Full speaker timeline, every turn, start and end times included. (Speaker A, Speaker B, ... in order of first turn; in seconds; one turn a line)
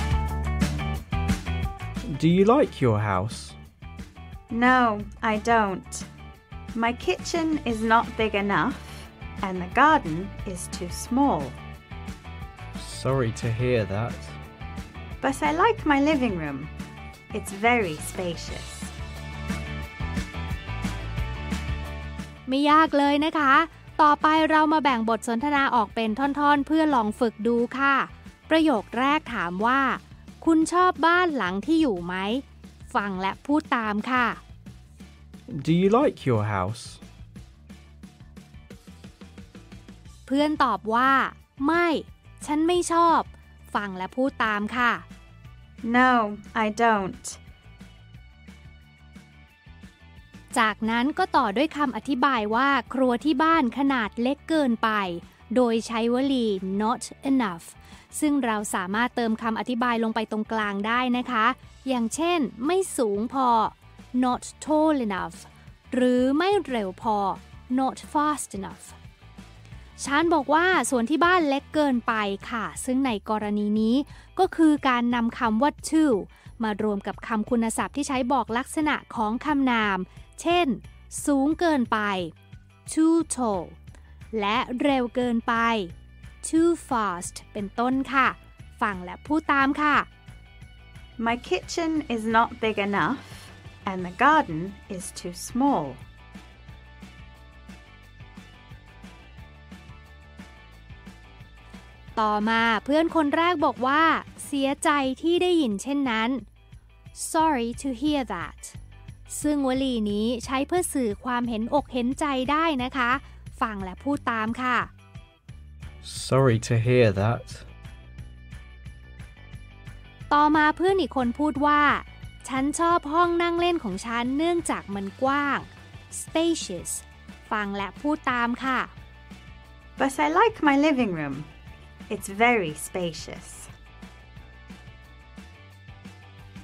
Speaker A: 2.0-3.6
Speaker B: 4.5-6.1
Speaker B: 6.7-11.6
Speaker A: 12.8-14.4
Speaker B: 15.2-16.7
Speaker B: 17.3-18.9
Speaker C: 22.5-34.4
Speaker A: 35.5-37.0
Speaker C: 40.3-45.0
Speaker B: 45.8-47.4
Speaker C: 50.5-69.0
Speaker C: 70.0-82.3
Speaker C: 82.9-83.8
Speaker C: 84.3-90.1
Speaker B: 91.2-96.0
Speaker C: 102.2-106.4
Speaker C: 107.2-108.8
Speaker C: 109.3-114.9
Speaker A: 116.0-117.7
Speaker C: 120.3-128.9
Speaker B: 130.0-131.5
Speaker B: 132.1-133.7